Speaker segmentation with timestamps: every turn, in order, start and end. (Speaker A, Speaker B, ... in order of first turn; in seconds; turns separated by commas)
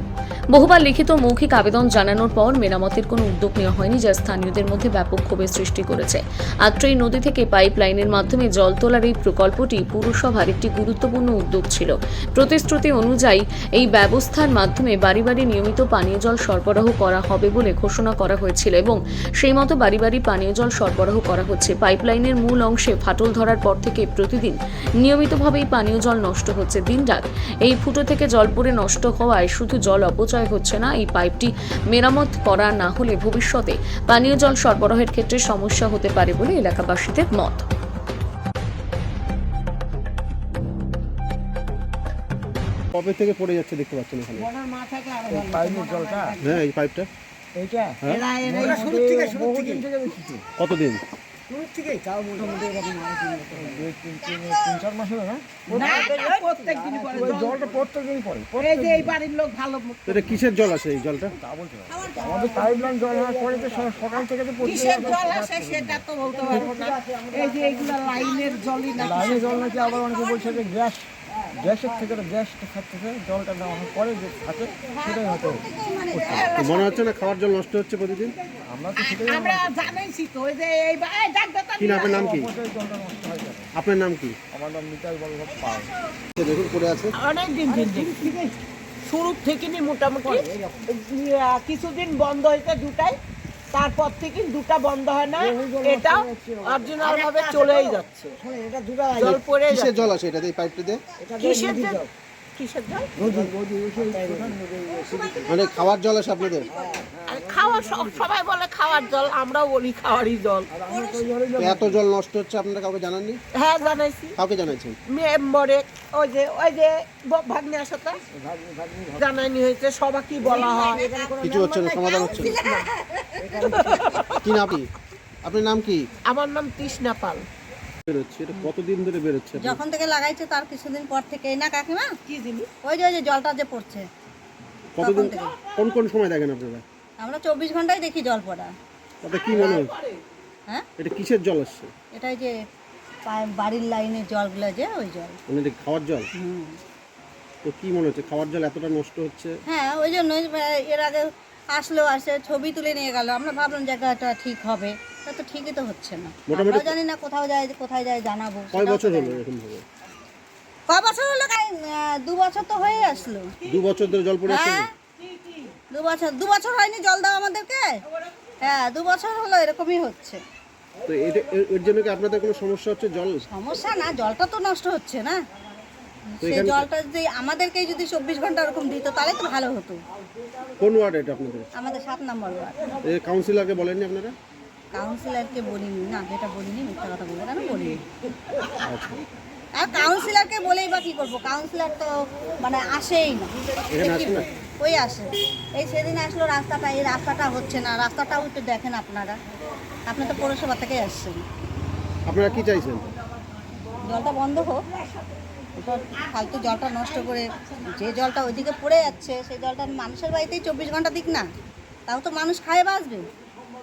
Speaker A: 0.5-37.7, Speaker B: 42.9-44.5, Speaker C: 44.4-46.6, Speaker D: 45.3-46.4, Speaker B: 46.4-47.1, Speaker D: 47.5-50.5, Speaker C: 48.1-49.8, Speaker B: 50.6-51.0, Speaker C: 51.5-52.3, Speaker E: 52.6-53.2, Speaker D: 53.5-56.1, Speaker E: 54.2-54.8, Speaker C: 55.7-57.8, Speaker D: 57.1-59.2, Speaker C: 58.6-60.2, Speaker B: 60.1-61.4, Speaker D: 61.4-66.0, Speaker C: 64.6-69.7, Speaker D: 66.5-66.9, Speaker D: 69.0-76.5, Speaker C: 74.9-75.2, Speaker E: 75.4-76.8, Speaker C: 76.2-77.0, Speaker B: 76.5-78.4, Speaker D: 78.7-80.0, Speaker C: 79.0-82.2, Speaker B: 81.8-82.5, Speaker D: 82.0-83.7, Speaker B: 83.8-84.4, Speaker D: 84.5-85.9, Speaker E: 85.6-86.1, Speaker B: 86.4-87.1, Speaker C: 87.2-88.5, Speaker D: 87.8-88.4, Speaker C: 89.0-93.2, Speaker C: 93.7-98.4, Speaker D: 95.4-97.8, Speaker D: 98.4-99.2, Speaker C: 99.2-100.1, Speaker B: 99.2-101.0, Speaker D: 101.2-102.0, Speaker C: 101.4-103.2, Speaker D: 103.2-105.5, Speaker E: 105.0-107.1, Speaker B: 105.5-106.7, Speaker D: 106.9-108.1, Speaker C: 107.3-110.7, Speaker D: 110.7-112.0, Speaker B: 111.6-113.4, Speaker C: 113.5-114.4, Speaker B: 114.4-115.0, Speaker C: 115.1-118.2, Speaker D: 118.3-119.3, Speaker C: 119.2-122.8, Speaker E: 120.5-121.3, Speaker B: 121.4-122.5, Speaker E: 121.9-123.6, Speaker D: 123.5-124.2, Speaker C: 123.7-124.4, Speaker B: 124.4-124.9, Speaker B: 125.4-126.1, Speaker C: 126.2-127.5, Speaker B: 128.1-129.8, Speaker E: 129.6-132.1, Speaker C: 132.3-132.7, Speaker E: 132.8-134.1, Speaker B: 135.0-136.8, Speaker E: 135.0-135.6, Speaker E: 137.2-138.7, Speaker B: 139.2-139.9, Speaker C: 139.6-140.2, Speaker B: 141.0-141.9, Speaker E: 142.1-142.6, Speaker E: 143.3-145.4, Speaker B: 145.5-146.3, Speaker E: 146.4-146.8, Speaker B: 147.6-149.6, Speaker E: 149.7-159.4, Speaker B: 156.5-156.9, Speaker B: 158.7-159.8, Speaker E: 160.9-163.5, Speaker B: 163.6-164.9, Speaker E: 164.5-164.9, Speaker E: 165.9-168.0, Speaker E: 168.6-170.4, Speaker B: 171.1-173.4, Speaker E: 173.5-175.4, Speaker E: 176.3-180.0, Speaker B: 176.4-176.9, Speaker B: 180.8-181.7, Speaker E: 181.8-182.9, Speaker B: 183.0-184.4, Speaker E: 184.9-188.0, Speaker B: 188.8-189.2, Speaker E: 189.8-199.4, Speaker B: 193.9-194.4, Speaker E: 200.1-201.4, Speaker B: 202.3-203.1, Speaker E: 204.0-204.8, Speaker E: 205.8-211.4, Speaker E: 212.1-213.3